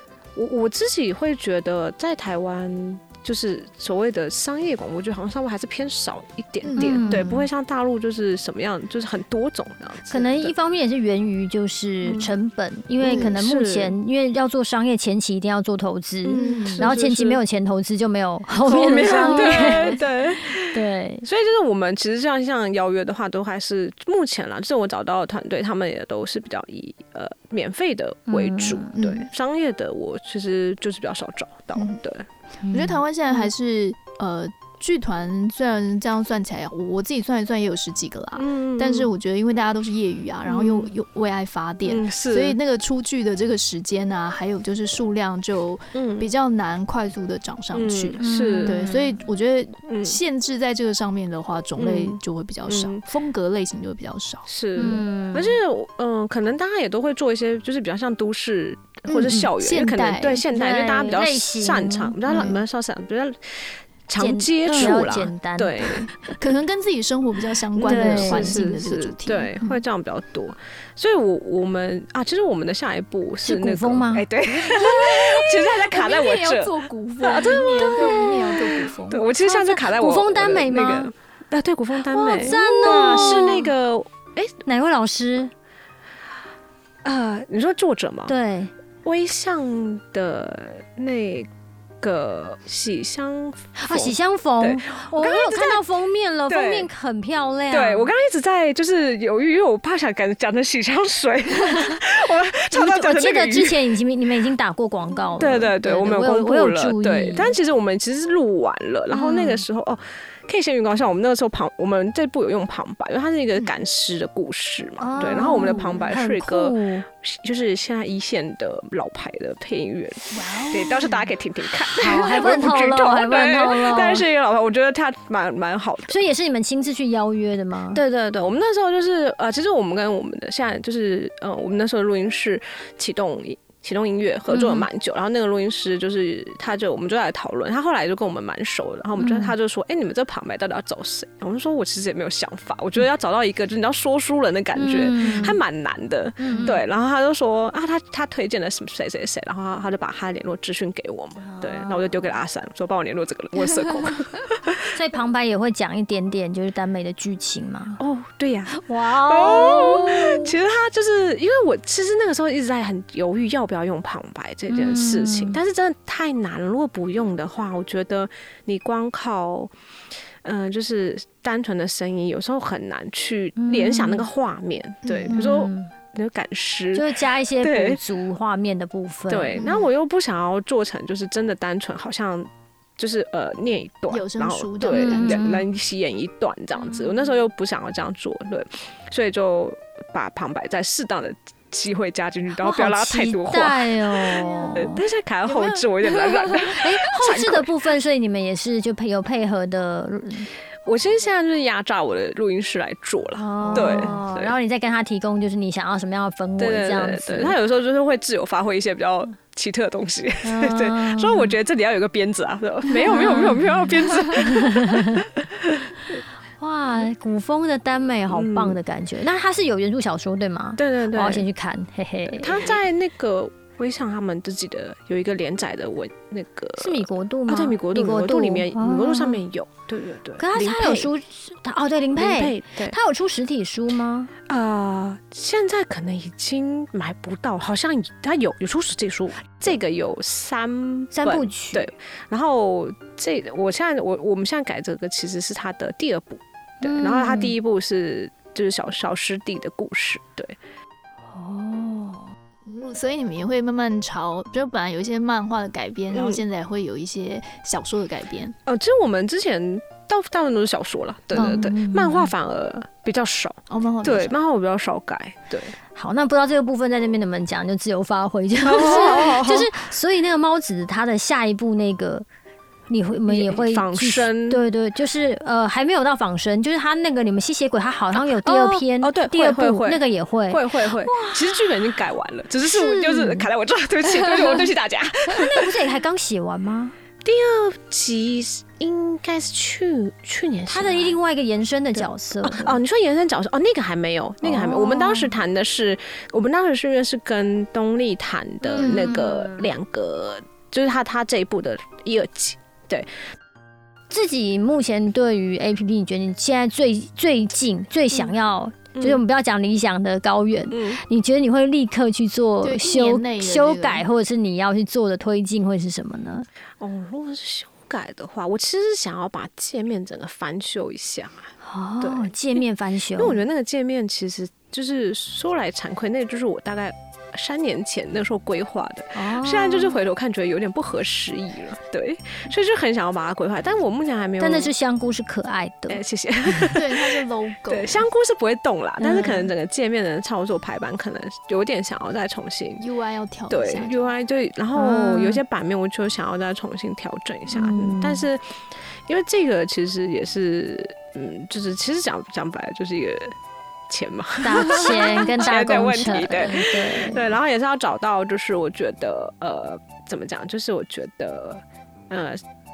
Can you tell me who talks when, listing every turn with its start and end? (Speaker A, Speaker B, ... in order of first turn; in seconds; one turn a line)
Speaker A: 0.3-10.5
Speaker B: 6.6-7.3
Speaker C: 6.8-7.4
Speaker C: 10.1-20.0
Speaker A: 12.0-12.3
Speaker B: 13.0-13.4
Speaker A: 13.1-13.9
Speaker A: 16.2-17.4
Speaker B: 16.3-16.9
Speaker A: 18.6-32.2
Speaker B: 19.1-20.0
Speaker C: 20.7-21.2
Speaker C: 28.3-28.9
Speaker B: 28.9-29.3
Speaker B: 31.7-32.0
Speaker C: 32.6-33.0
Speaker B: 32.7-54.5
Speaker A: 38.4-39.1
Speaker A: 40.5-40.9
Speaker A: 41.8-42.6
Speaker A: 45.9-46.3
Speaker A: 47.7-48.8
Speaker C: 48.2-49.1
Speaker A: 49.9-50.2
Speaker A: 51.8-53.0
Speaker A: 54.5-66.1
Speaker C: 54.8-55.5
Speaker B: 59.1-60.5
Speaker C: 60.5-62.5
Speaker B: 62.3-62.6
Speaker C: 64.2-65.9
Speaker B: 64.6-65.1
Speaker B: 65.9-69.8
Speaker A: 67.8-84.5
Speaker C: 67.8-68.6
Speaker C: 73.4-74.2
Speaker B: 74.6-79.3
Speaker C: 77.8-78.6
Speaker C: 79.4-81.1
Speaker C: 82.1-83.7
Speaker C: 84.6-85.5
Speaker A: 87.0-88.3
Speaker C: 88.3-88.7
Speaker A: 89.0-91.5
Speaker A: 92.0-95.8
Speaker C: 93.8-98.1
Speaker A: 96.5-96.9
Speaker A: 97.7-104.0
Speaker C: 102.7-107.5
Speaker A: 105.4-126.2
Speaker C: 109.1-109.6
Speaker C: 115.0-117.0
Speaker B: 115.2-116.1
Speaker B: 120.3-121.3
Speaker C: 121.9-124.2
Speaker C: 126.1-128.0
Speaker A: 127.9-154.9
Speaker C: 134.5-134.9
Speaker C: 139.2-139.5
Speaker C: 144.8-145.6
Speaker B: 145.2-145.5
Speaker C: 146.4-146.8
Speaker C: 151.4-152.1
Speaker C: 154.9-158.0
Speaker A: 158.0-169.7
Speaker C: 158.7-160.5
Speaker C: 164.7-165.6
Speaker A: 170.4-178.0
Speaker C: 173.6-174.2
Speaker B: 175.0-175.4
Speaker C: 175.3-175.9
Speaker C: 176.9-179.6
Speaker A: 179.3-197.7
Speaker B: 179.6-179.8
Speaker B: 184.1-185.5
Speaker C: 184.9-185.6
Speaker C: 192.6-195.0
Speaker B: 195.5-196.5
Speaker C: 196.7-200.5
Speaker A: 200.8-204.5
Speaker C: 203.3-207.6
Speaker B: 203.7-204.2
Speaker A: 206.6-216.2
Speaker C: 210.4-211.5
Speaker C: 213.1-215.2
Speaker C: 216.6-222.8
Speaker A: 218.3-218.8
Speaker A: 220.8-221.4
Speaker A: 222.3-231.1
Speaker C: 226.8-229.4
Speaker C: 230.4-234.3
Speaker A: 232.2-233.0
Speaker A: 234.5-250.6
Speaker C: 241.1-241.9
Speaker C: 246.8-247.5
Speaker C: 251.3-252.3
Speaker B: 252.6-258.5
Speaker A: 256.1-256.4
Speaker A: 258.6-265.8
Speaker C: 261.3-262.3
Speaker B: 263.7-264.3
Speaker C: 265.9-272.2
Speaker A: 268.6-269.7
Speaker C: 272.9-281.7
Speaker A: 273.3-274.6
Speaker A: 278.1-285.7
Speaker C: 282.6-283.5
Speaker C: 284.3-284.6
Speaker C: 285.3-286.9
Speaker A: 287.2-291.2
Speaker C: 290.7-292.8
Speaker A: 291.9-303.1
Speaker C: 294.4-295.4
Speaker C: 298.7-299.7
Speaker C: 304.1-316.5
Speaker A: 308.9-309.2
Speaker A: 310.7-311.0
Speaker B: 312.6-314.0
Speaker A: 316.8-322.6
Speaker C: 321.6-323.4
Speaker A: 323.1-334.7
Speaker C: 329.1-330.0
Speaker C: 334.4-336.0
Speaker A: 335.9-342.8
Speaker B: 336.7-338.1
Speaker C: 339.0-339.5
Speaker B: 342.8-344.1
Speaker A: 343.5-348.4
Speaker C: 344.7-345.4
Speaker C: 347.5-348.3
Speaker A: 349.1-353.3
Speaker A: 353.9-362.4
Speaker C: 354.4-357.3